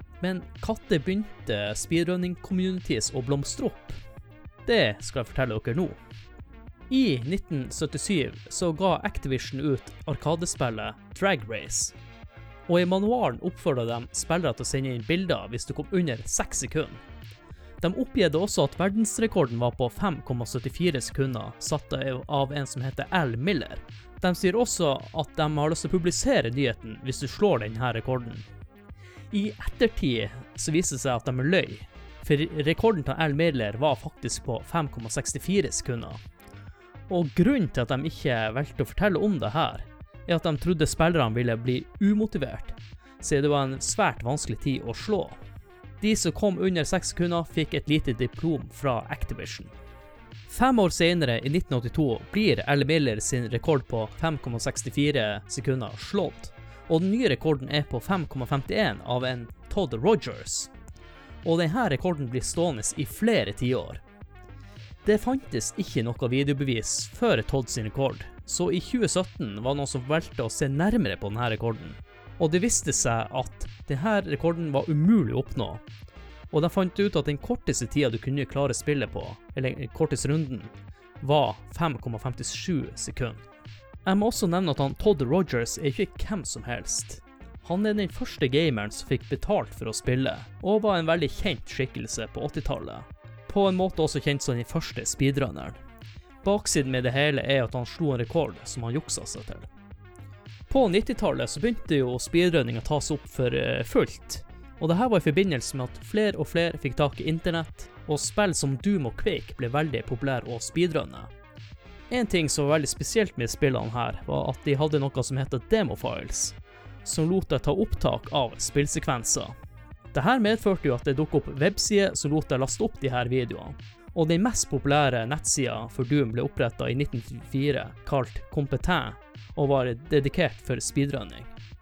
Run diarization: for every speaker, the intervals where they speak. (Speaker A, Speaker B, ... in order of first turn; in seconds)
Speaker A: 0.2-4.0, 4.7-6.0, 6.9-11.9, 12.7-17.0, 17.8-28.5, 29.3-36.2, 37.1-45.4, 46.0-49.7, 50.5-60.7, 61.4-64.0, 65.0-75.8, 76.5-83.4, 84.0-95.8, 96.4-99.7, 100.7-111.3, 112.1-119.5, 120.1-131.5